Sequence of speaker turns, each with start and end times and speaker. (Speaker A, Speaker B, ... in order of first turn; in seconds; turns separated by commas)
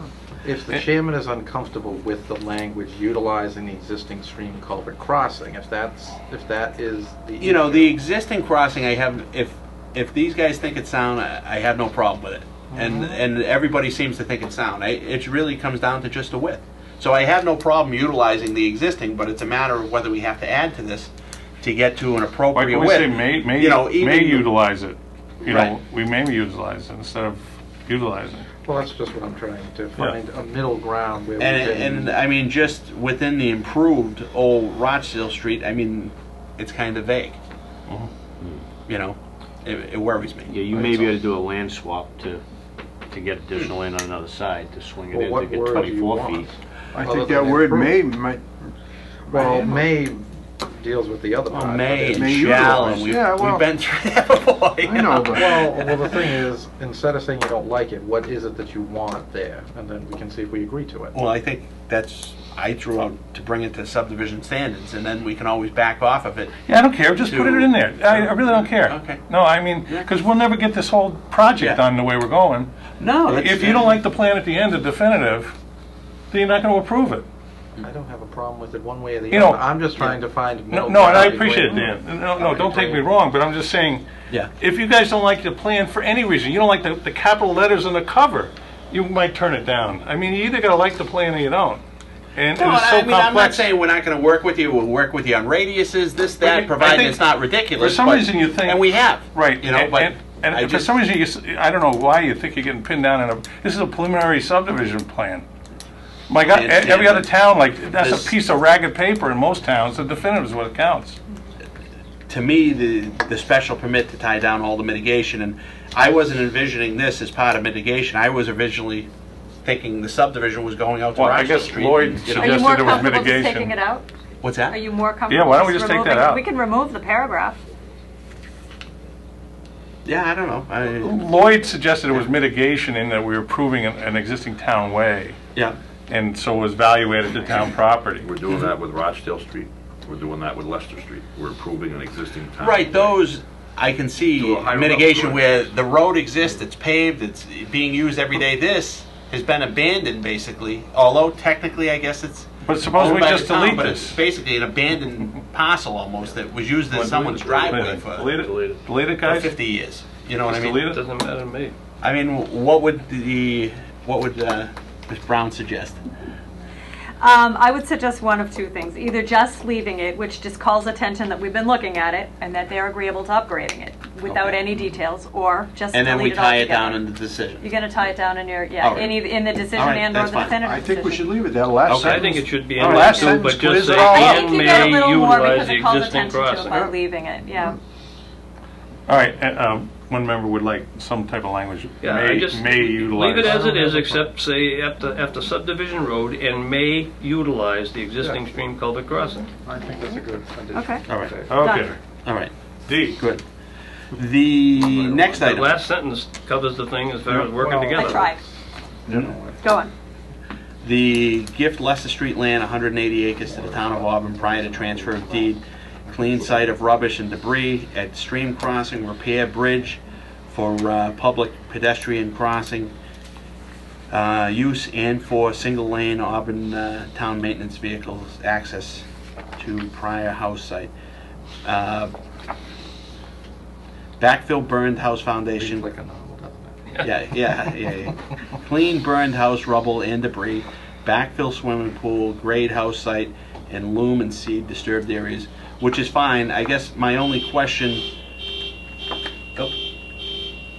Speaker A: 0.4-7.9, Speaker B: 7.4-24.5, Speaker A: 12.7-13.2, Speaker C: 22.5-28.5, Speaker B: 25.4-25.7, Speaker A: 28.6-32.2, Speaker B: 31.4-37.4, Speaker B: 38.9-40.8, Speaker D: 40.5-42.4, Speaker A: 40.7-41.0, Speaker D: 43.1-46.5, Speaker A: 45.1-48.0, Speaker E: 46.9-48.5, Speaker E: 49.3-49.9, Speaker A: 49.3-52.3, Speaker B: 51.5-56.2, Speaker E: 52.1-53.7, Speaker E: 54.8-55.6, Speaker A: 55.3-61.2, Speaker B: 61.1-66.5, Speaker C: 66.7-72.7, Speaker B: 67.2-69.2, Speaker B: 71.5-71.8, Speaker B: 73.0-74.0, Speaker C: 73.3-75.5, Speaker C: 76.3-77.2, Speaker A: 77.8-83.0, Speaker C: 79.3-79.6, Speaker C: 80.7-84.0, Speaker C: 84.6-91.8, Speaker C: 92.3-93.7, Speaker B: 92.5-100.9, Speaker C: 96.4-97.2, Speaker C: 97.7-105.5, Speaker C: 106.3-111.2, Speaker B: 106.5-107.3, Speaker B: 107.9-108.3, Speaker B: 112.3-119.1, Speaker B: 119.6-123.0, Speaker C: 121.1-123.7, Speaker F: 122.3-124.0, Speaker B: 124.4-124.8, Speaker F: 124.7-127.6, Speaker C: 125.3-126.4, Speaker B: 130.1-131.3, Speaker C: 131.0-135.4, Speaker C: 136.1-138.2, Speaker G: 138.2-143.2, Speaker B: 142.6-158.3, Speaker G: 144.4-145.7, Speaker C: 152.6-154.2, Speaker C: 156.9-159.6, Speaker H: 157.2-158.8, Speaker B: 159.2-160.9, Speaker C: 160.5-161.1, Speaker H: 160.7-161.7, Speaker B: 162.0-166.0, Speaker F: 167.2-181.4, Speaker B: 174.2-175.0, Speaker B: 175.9-177.7, Speaker B: 178.8-180.6, Speaker E: 180.5-185.1, Speaker B: 181.9-182.3, Speaker H: 182.0-186.9, Speaker C: 182.8-183.9, Speaker F: 182.9-187.8, Speaker C: 189.1-193.8, Speaker H: 192.0-199.5, Speaker A: 193.4-194.2, Speaker A: 199.6-201.6, Speaker F: 200.7-202.0, Speaker B: 201.1-201.5, Speaker C: 201.5-202.0, Speaker B: 202.2-202.5, Speaker C: 202.9-203.2, Speaker B: 203.1-203.4, Speaker B: 204.1-205.8, Speaker H: 205.4-208.3, Speaker A: 207.3-208.5, Speaker F: 207.9-208.4, Speaker A: 209.1-209.6, Speaker F: 209.6-209.9, Speaker B: 210.8-222.9, Speaker B: 224.1-229.1, Speaker B: 229.6-230.9, Speaker B: 231.6-232.1, Speaker B: 234.2-235.9, Speaker A: 235.6-237.0, Speaker B: 237.0-248.1